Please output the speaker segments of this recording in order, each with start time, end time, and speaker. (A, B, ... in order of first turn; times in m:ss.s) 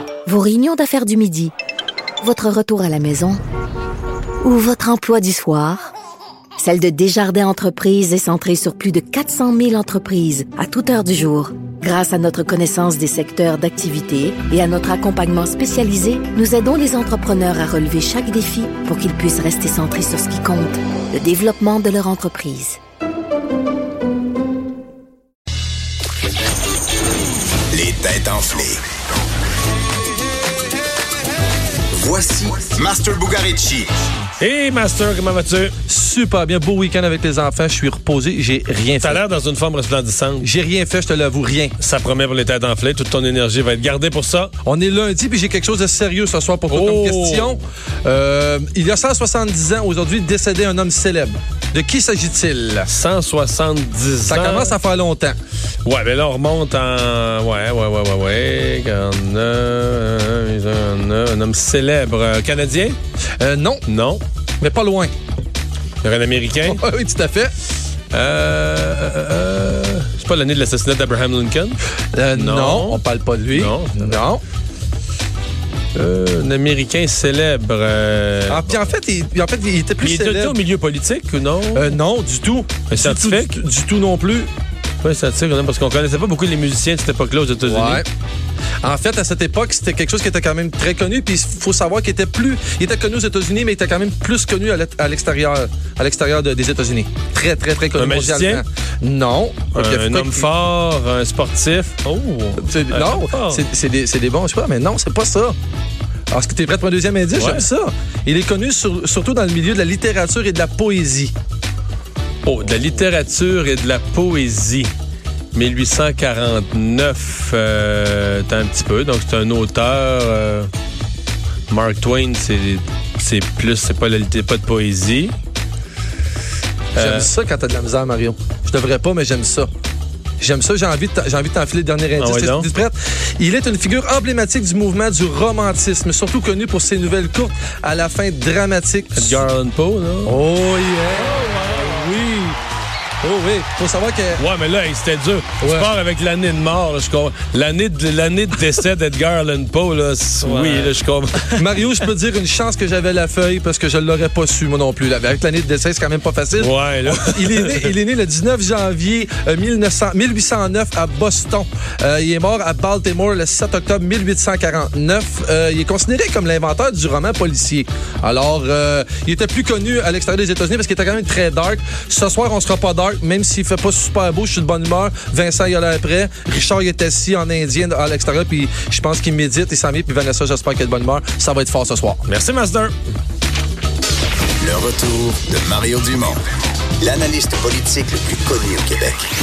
0:00.2-0:01.5 A
0:02.2-0:03.4 A
0:04.4-0:05.9 A
0:06.6-0:22.8 A
0:27.7-0:28.8 B
0:31.9-0:33.9 B
0:34.4-0:35.7 C
0:35.9-0:39.2 D
0:39.0-0:40.5 C
0:40.4-0:41.8 D
0:41.8-0:44.5 C
0:44.6-0:52.9 D
0:46.7-0:47.6 C
0:52.9-0:54.8 C
0:54.3-0:55.4 D
0:55.8-1:03.0 C
1:03.4-1:03.8 D
1:03.9-1:04.2 C
1:04.6-1:05.1 D
1:06.0-1:06.8 C
1:06.6-1:07.5 D
1:08.1-1:11.8 C
1:12.1-1:14.4 D
1:12.3-1:14.2 C
1:15.9-1:18.8 C
1:18.5-1:20.6 D
1:20.0-1:22.0 C
1:21.7-1:24.5 D
1:22.9-1:23.6 C
1:25.0-1:28.0 C
1:27.6-1:28.0 D
1:28.8-1:40.5 D
1:38.0-1:38.6 C
1:39.7-1:43.6 C
1:42.6-1:45.6 D
1:46.3-1:51.3 D
1:47.3-1:47.7 C
1:52.4-1:54.9 C
1:55.5-2:00.7 C
2:01.7-2:05.3 C
2:06.9-2:07.3 C
2:07.0-2:09.7 D
2:10.4-2:19.4 D
2:12.2-2:12.7 C
2:19.1-2:20.4 C
2:20.2-2:22.6 D
2:21.2-2:22.2 C
2:23.2-2:24.4 D
2:24.4-2:31.7 C
2:25.6-2:25.9 D
2:30.4-2:30.9 D
2:31.5-3:02.2 D
2:36.6-2:37.9 C
3:02.3-3:02.9 C
3:04.6-3:06.4 B
3:07.0-3:09.2 B